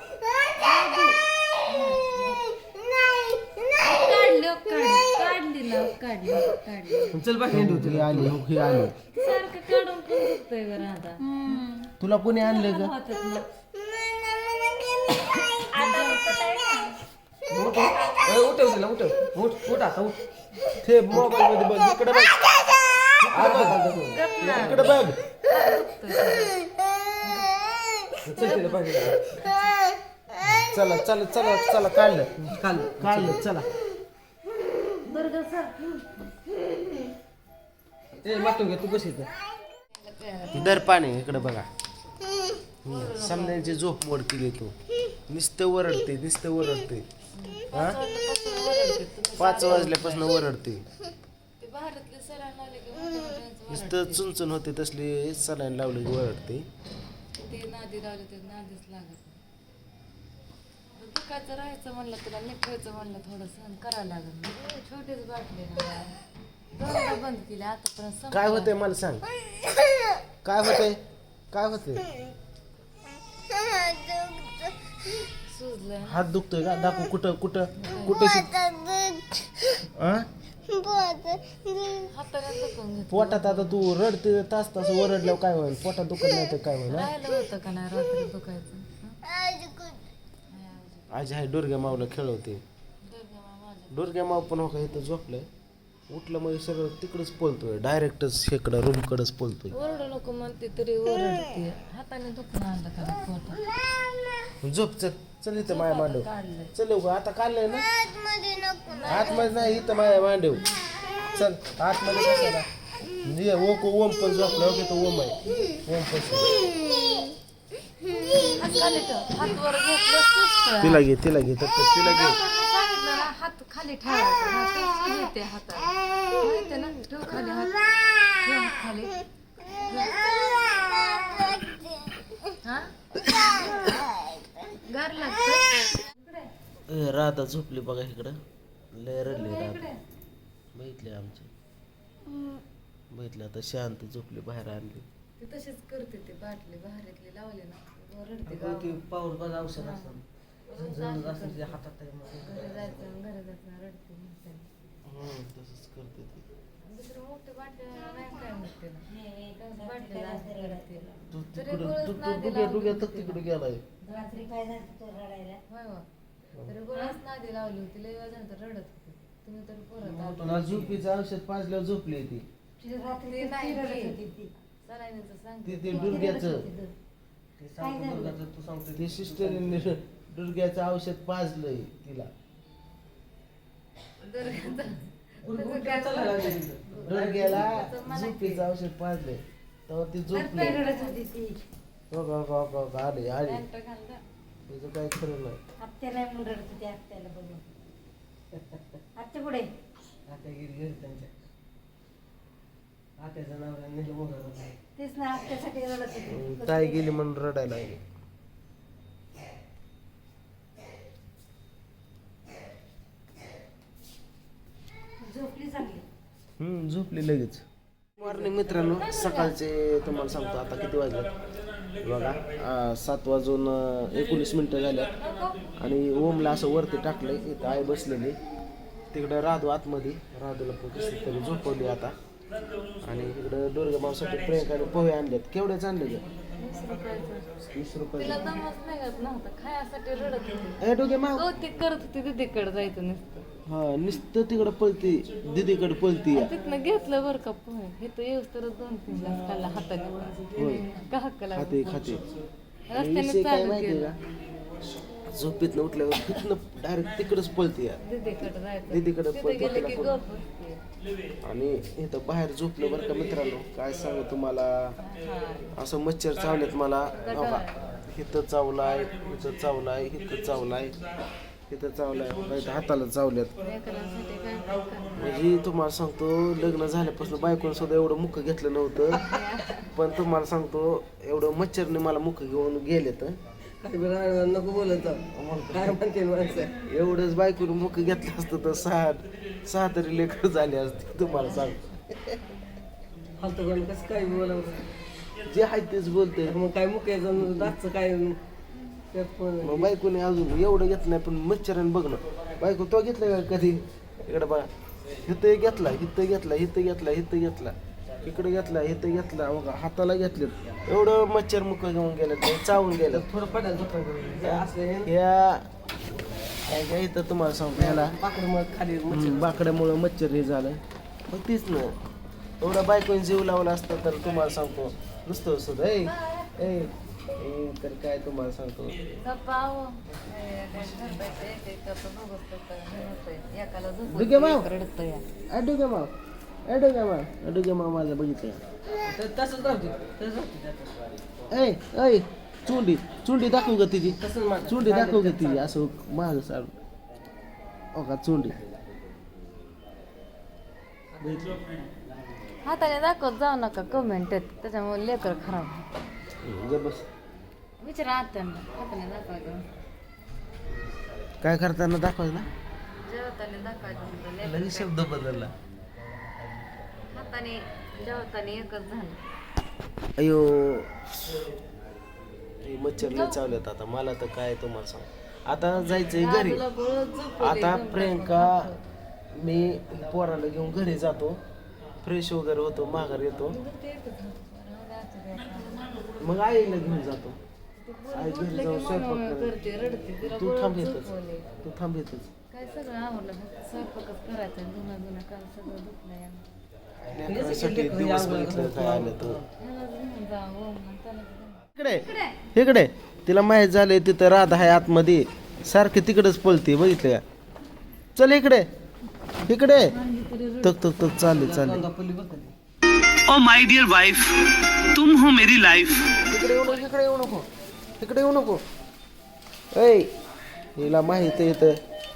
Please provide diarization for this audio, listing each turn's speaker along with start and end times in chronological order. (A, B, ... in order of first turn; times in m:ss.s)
0:00.5-0:02.5 A
0:03.7-0:07.2 A
0:07.1-0:08.4 B
0:07.5-0:08.9 C
0:08.9-0:13.5 A
0:12.0-0:12.9 C
0:15.5-0:16.9 A
0:15.7-0:16.9 D
0:17.5-0:20.2 B
0:20.8-0:22.4 C
0:21.1-0:21.4 B
0:23.2-0:23.8 C
0:23.3-0:25.1 B
0:24.1-0:24.8 A
0:24.5-0:25.2 C
0:25.4-0:26.7 A
0:27.2-0:27.6 A
0:28.2-0:29.8 A
0:28.2-0:29.3 B
0:30.4-0:32.4 C
0:32.4-0:33.4 B
0:33.0-0:33.7 C
0:35.0-0:36.2 A
0:38.1-0:39.3 B
0:39.9-0:40.9 A
0:40.5-0:41.7 C
0:42.8-0:44.7 C
0:42.8-0:43.8 A
0:45.3-0:47.1 C
0:47.3-0:50.4 A
0:47.7-0:48.0 C
0:49.4-0:50.8 C
0:51.6-0:54.2 A
0:53.7-0:56.7 C
0:57.4-0:59.4 A
1:01.0-1:06.2 A
1:06.7-1:08.7 A
1:08.3-1:09.2 C
1:10.4-1:11.0 C
1:11.5-1:12.1 C
1:15.5-1:16.2 A
1:16.0-1:18.7 C
1:17.8-1:18.4 A
1:19.9-1:20.3 C
1:21.8-1:23.8 A
1:23.1-1:27.1 C
1:26.9-1:29.2 A
1:30.5-1:31.1 A
1:31.1-1:32.6 C
1:33.0-1:34.0 A
1:33.9-1:35.5 C
1:36.1-1:39.8 C
1:39.7-1:43.7 A
1:44.6-1:47.9 C
1:45.6-1:46.7 A
1:48.8-1:50.7 A
1:49.0-1:50.6 C
1:51.3-1:52.7 C
1:53.2-1:56.5 C
1:58.5-2:01.0 A
2:00.8-2:02.4 C
2:02.0-2:11.6 A
2:12.6-2:13.8 A
2:14.6-2:16.5 A
2:16.9-2:18.4 C
2:18.9-2:19.9 C
2:19.2-2:20.0 A
2:20.7-2:21.5 C
2:23.1-2:25.0 C
2:25.4-2:29.0 A
2:28.4-2:30.2 B
2:29.8-2:30.1 A
2:30.7-2:31.8 A
2:30.7-2:33.0 B
2:32.4-2:34.7 A
2:35.0-2:36.4 C
2:36.8-2:43.4 A
2:39.1-2:41.2 D
2:41.3-2:43.8 C
2:44.1-2:45.6 D
2:45.7-2:46.0 A
2:46.6-2:50.8 A
2:50.0-2:51.0 B
2:50.4-2:52.4 C
2:52.8-2:54.5 D
2:53.2-2:56.5 A
2:55.6-2:56.7 C
2:55.9-2:56.9 D
2:57.6-3:00.0 B
2:57.8-2:58.4 D
2:59.0-3:02.3 C
3:04.2-3:08.6 A
3:05.4-3:07.7 B
3:07.0-3:10.8 C
3:10.3-3:11.2 A
3:10.6-3:11.6 D
3:12.1-3:13.6 C
3:13.4-3:14.2 A
3:14.7-3:15.6 C
3:15.8-3:17.6 D
3:18.5-3:18.8 B
3:19.2-3:19.7 D
3:20.2-3:21.3 B
3:23.2-3:24.8 B
3:25.0-3:27.0 D
3:26.2-3:28.0 C
3:35.2-3:36.0 D
3:36.6-3:37.6 C
3:38.2-3:41.3 C
3:38.2-3:38.6 B
3:39.0-3:39.5 A
3:42.0-3:45.1 C
3:45.2-3:45.5 A
3:45.8-3:48.4 C
3:49.1-3:52.1 C
3:53.0-3:56.2 C
3:56.6-3:57.5 A
3:57.7-3:58.5 C
3:58.2-4:03.2 A
4:00.8-4:01.5 C
4:03.6-4:06.5 C
4:06.3-4:12.2 A
4:10.5-4:10.8 C
4:11.5-4:12.2 C
4:12.9-4:14.1 A
4:12.9-4:14.2 C
4:15.3-4:18.0 C
4:18.0-4:20.8 A
4:18.9-4:20.2 C
4:21.4-4:25.0 C
4:25.0-4:25.7 A
4:25.7-4:31.0 C
4:27.2-4:27.9 A
4:31.7-4:33.5 C
4:33.6-4:35.4 A
4:35.1-4:39.3 C
4:39.1-4:39.9 A
4:39.9-4:43.4 C
4:43.8-4:46.7 B
4:45.3-4:46.0 C
4:46.6-4:52.4 C
4:53.4-4:54.9 B
4:55.4-4:56.6 C
4:56.4-4:58.4 B
4:57.4-4:57.7 C
4:59.1-4:59.9 B
4:59.6-5:04.7 C
5:05.2-5:13.2 C
5:13.0-5:15.1 B
5:14.4-5:15.7 C
5:16.6-5:18.2 C
5:17.7-5:19.6 B
5:19.1-5:21.9 C
5:22.6-5:29.0 C
5:26.2-5:26.6 A
5:29.2-5:35.2 A
5:34.1-5:34.6 C
5:35.5-5:36.1 C
5:36.6-5:38.6 C
5:39.0-5:41.0 B
5:41.5-5:46.8 C
5:44.1-5:45.7 B
5:47.9-5:48.6 C
5:51.2-5:51.8 B
5:52.6-5:55.9 A
5:56.4-5:57.0 C
5:57.8-5:59.6 A
6:01.4-6:02.5 C
6:03.0-6:05.4 A
6:04.4-6:05.5 C
6:07.1-6:09.2 A
6:10.2-6:11.5 C
6:12.6-6:16.6 C
6:13.0-6:13.6 A
6:16.0-6:18.8 A
6:17.4-6:18.7 C
6:19.3-6:21.4 C
6:22.0-6:23.6 C
6:23.5-6:26.2 A
6:26.2-6:27.4 C
6:27.8-6:31.5 A
6:28.1-6:29.5 C
6:30.2-6:31.1 C
6:31.6-6:32.3 C
6:32.5-6:36.4 A
6:37.0-6:39.4 C
6:37.2-6:39.5 B
6:39.6-6:42.4 A
6:41.7-6:47.2 C
6:48.1-6:48.7 C
6:49.4-6:50.0 C
6:49.8-6:51.2 A
6:50.6-6:51.8 C
6:51.3-6:52.5 B
6:53.3-6:54.4 E
6:54.9-6:56.1 E
6:56.3-6:57.5 C
6:58.0-6:58.6 C
6:59.7-7:00.1 C
7:00.8-7:01.8 C